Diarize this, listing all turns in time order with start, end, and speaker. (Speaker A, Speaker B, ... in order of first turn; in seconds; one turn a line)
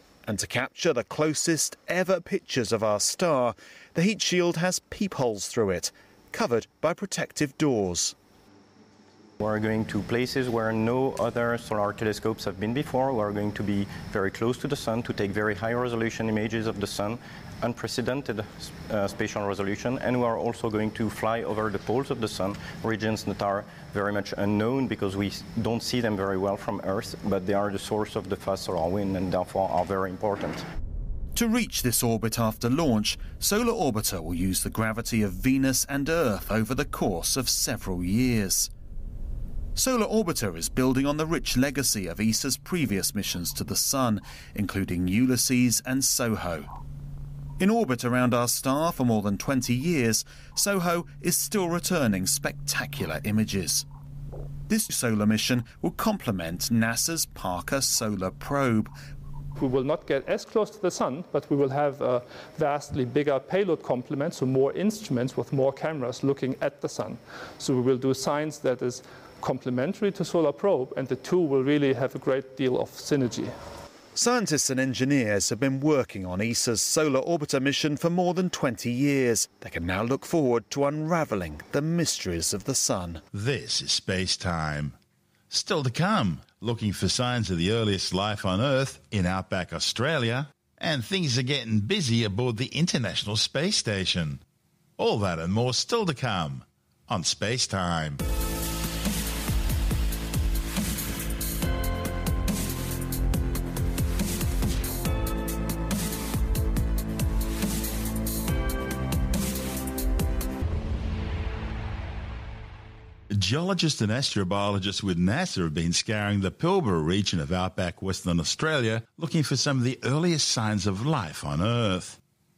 Speaker A: 0.2-8.1
Speaker B: 9.4-30.6
Speaker A: 31.3-38.7
Speaker A: 39.8-46.7
Speaker A: 47.6-53.9
Speaker A: 54.7-58.9
Speaker C: 59.6-73.5
Speaker A: 74.1-83.2
Speaker D: 83.3-85.0
Speaker D: 85.5-94.4
Speaker D: 95.0-98.2
Speaker D: 113.3-122.2